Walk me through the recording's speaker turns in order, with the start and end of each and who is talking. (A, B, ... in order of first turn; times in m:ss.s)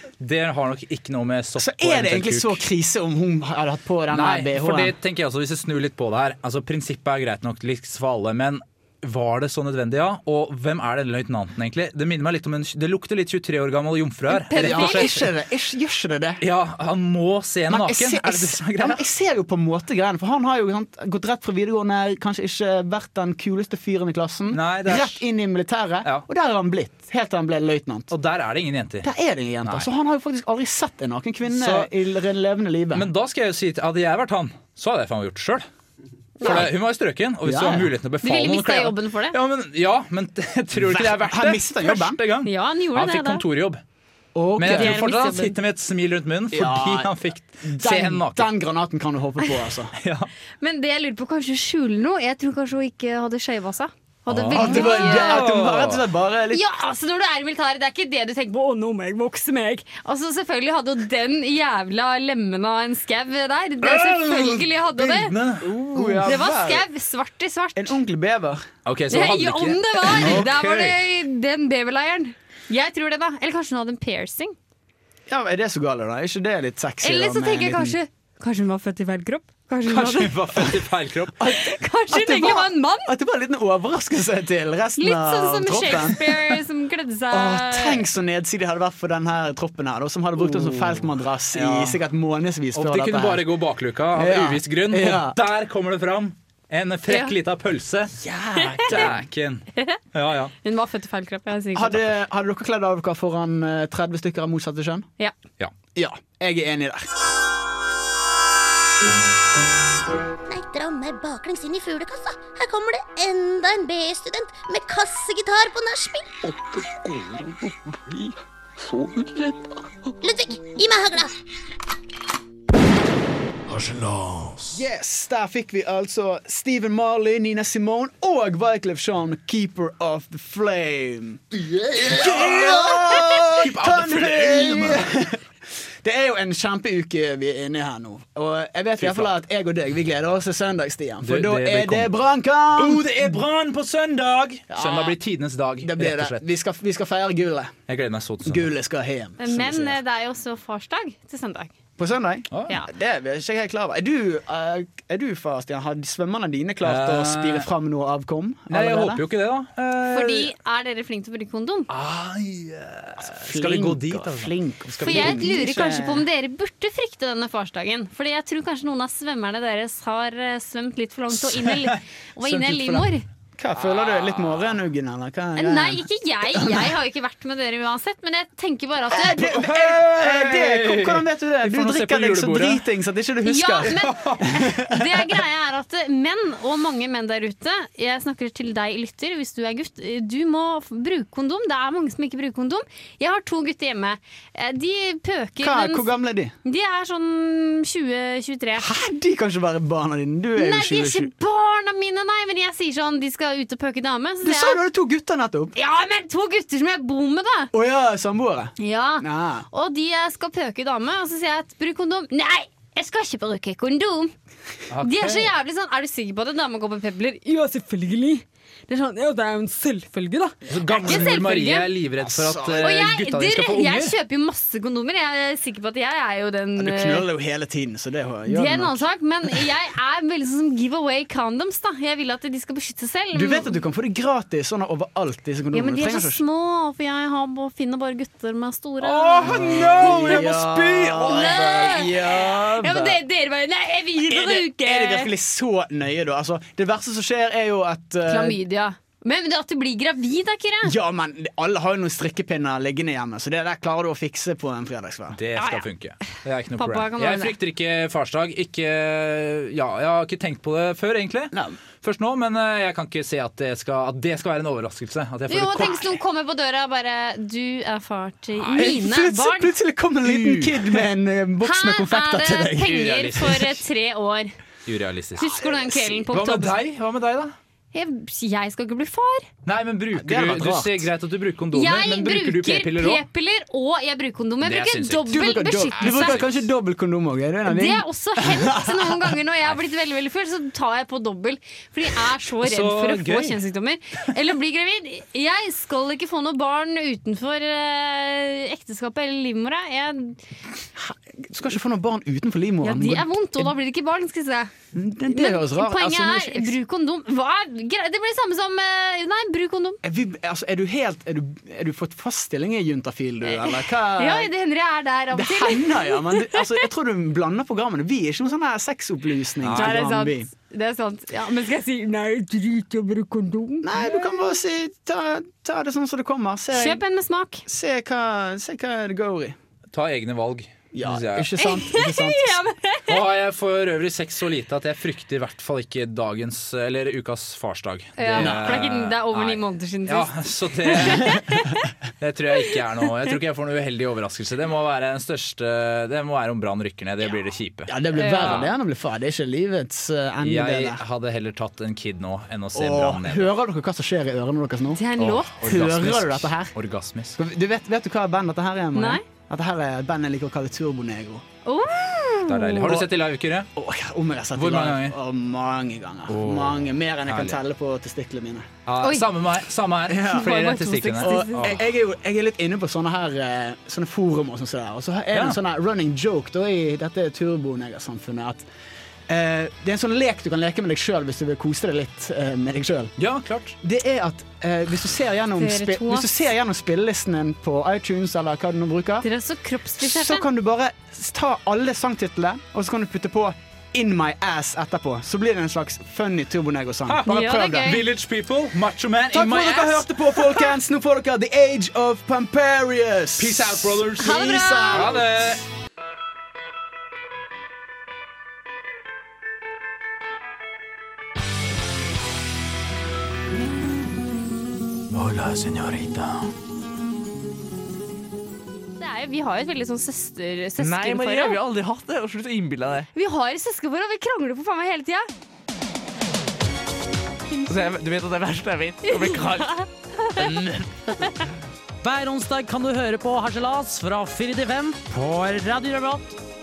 0:00.2-0:02.6 A
0:01.6-0:04.9 B
0:04.1-0:15.3 A
0:14.3-0:15.1 C
0:14.6-0:16.4 B
0:16.4-0:19.0 A
0:17.7-0:28.1 B
0:24.5-0:25.2 A
0:28.1-0:29.1 A
0:29.0-0:33.1 B
0:31.5-0:31.9 A
0:32.9-0:35.7 A
0:36.4-0:43.8 A
0:36.4-0:36.7 B
0:37.4-0:37.9 B
0:38.2-0:39.4 C
0:40.7-0:42.2 B
0:42.4-0:43.4 C
0:44.4-0:45.2 B
0:44.6-0:48.5 A
0:44.6-0:45.6 C
0:46.5-0:49.9 B
0:50.0-0:50.3 A
0:50.6-0:55.5 C
0:54.3-0:56.0 A
0:54.5-0:56.6 B
0:56.5-1:05.3 C
1:03.8-1:06.3 A
1:05.6-1:06.9 B
1:06.2-1:08.0 C
1:07.8-1:08.7 B
1:08.8-1:11.0 A
1:09.1-1:14.6 C
1:10.2-1:10.5 B
1:15.3-1:18.0 B
1:17.0-1:20.4 C
1:19.9-1:21.4 A
1:21.4-1:26.6 B
1:21.4-1:23.1 C
1:25.0-1:28.0 C
1:27.3-1:33.4 B
1:30.4-1:32.0 A
1:32.8-1:38.2 A
1:34.2-1:35.4 B
1:37.1-1:37.3 C
1:38.2-1:39.2 B
1:38.6-1:39.0 C
1:38.8-1:40.5 A
1:39.8-1:40.0 C
1:40.6-1:42.0 C
1:41.7-1:45.1 B
1:46.0-1:47.1 B
1:50.5-1:56.5 D
1:59.0-1:59.7 E
2:00.2-2:01.4 D
2:03.7-2:04.8 E
2:04.7-2:15.4 B
2:11.9-2:15.1 A
2:16.0-2:23.4 B
2:19.0-2:19.3 A
2:21.2-2:22.1 A
2:22.8-2:26.4 A
2:24.7-2:25.2 B
2:25.8-2:27.8 B
2:27.9-2:28.7 A
2:28.4-2:30.0 B
2:29.4-2:31.7 C
2:32.0-2:39.2 B
2:32.5-2:32.8 A
2:36.8-2:37.7 A
2:38.7-2:40.5 A
2:40.1-2:41.9 C
2:41.9-2:45.6 A
2:43.2-2:46.3 B
2:45.0-2:53.2 C
2:51.4-2:53.1 A
2:53.6-2:56.9 B
2:53.8-2:54.8 A
2:55.6-2:59.4 C
2:59.1-3:05.4 B
2:59.4-3:02.8 A
3:03.4-3:16.1 C
3:03.9-3:04.5 A
3:15.6-3:16.5 B
3:16.6-3:18.9 C
3:18.8-3:21.3 B
3:20.6-3:24.8 C
3:24.4-3:25.8 B
3:25.8-3:27.7 C
3:27.7-3:29.7 B
3:28.8-3:34.3 C
3:34.9-3:35.5 A
3:35.0-3:41.9 C
3:40.7-3:44.2 A
3:40.7-3:41.4 B
3:42.2-3:43.0 B
3:42.8-3:47.3 C
3:46.8-3:49.1 B
3:48.5-3:53.8 C
3:53.3-3:56.4 B
3:55.7-4:00.4 C
3:59.0-4:02.1 A
3:59.4-4:03.2 B
4:01.2-4:05.3 C
4:04.3-4:08.6 B
4:08.3-4:11.0 C
4:10.8-4:15.4 B
4:15.4-4:26.2 A
4:15.6-4:15.8 C
4:16.8-4:17.5 C
4:21.5-4:21.8 B
4:25.5-4:29.8 C
4:28.6-4:28.9 A
4:28.7-4:33.7 B
4:30.2-4:30.8 A
4:31.6-4:34.5 C
4:33.4-4:33.7 A
4:34.9-4:35.5 A
4:35.4-4:36.7 C
4:35.4-4:36.3 B
4:36.3-4:37.6 A
4:37.9-4:39.5 C
4:39.6-4:43.2 A
4:40.2-4:41.1 B
4:41.7-4:46.4 C
4:44.6-4:46.6 A
4:45.3-4:49.4 B
4:47.7-5:00.4 C
4:52.6-4:53.6 A
5:01.0-5:03.7 B
5:02.8-5:04.7 C
5:04.9-5:06.8 B
5:05.3-5:10.0 C
5:10.0-5:14.5 B
5:13.5-5:16.6 C
5:15.3-5:20.5 B
5:19.6-5:20.2 A
5:19.8-5:24.4 C
5:23.8-5:27.0 B
5:26.7-5:27.6 C
5:27.7-5:29.6 B
5:29.9-5:31.5 A
5:30.9-5:32.6 B
5:31.6-5:33.2 C
5:33.1-5:41.5 A
5:38.2-5:41.9 C
5:38.4-5:38.8 B
5:42.2-5:48.7 A
5:47.9-5:51.0 B
5:48.2-5:48.6 C
5:50.4-5:53.5 A
5:52.8-5:55.0 B
5:55.0-5:55.6 C
5:55.2-5:57.4 A
5:55.6-5:56.8 B
5:57.4-6:01.4 B
5:59.0-5:59.2 C
6:01.6-6:03.0 C
6:02.5-6:03.7 A
6:02.8-6:03.1 B
6:03.8-6:08.7 B
6:04.6-6:05.2 A
6:06.3-6:07.6 A
6:08.9-6:11.9 A
6:09.0-6:09.3 C
6:10.1-6:10.5 B
6:10.2-6:11.8 C
6:11.2-6:18.7 B
6:19.3-6:23.1 B
6:23.2-6:23.8 A
6:23.8-6:29.3 B
6:25.6-6:26.4 C
6:29.2-6:30.4 C
6:30.0-6:38.0 B
6:37.1-6:40.1 A
6:37.2-6:38.0 C
6:39.3-6:45.4 B
6:43.4-6:45.7 A
6:44.2-6:45.2 C
6:55.1-6:56.5 E
6:59.0-7:01.6 C
7:00.8-7:03.1 E
7:03.1-7:05.3 C
7:07.5-7:08.0 C
7:07.7-7:09.8 E
7:09.0-7:10.7 C
7:10.4-7:11.0 E
7:12.0-7:16.4 F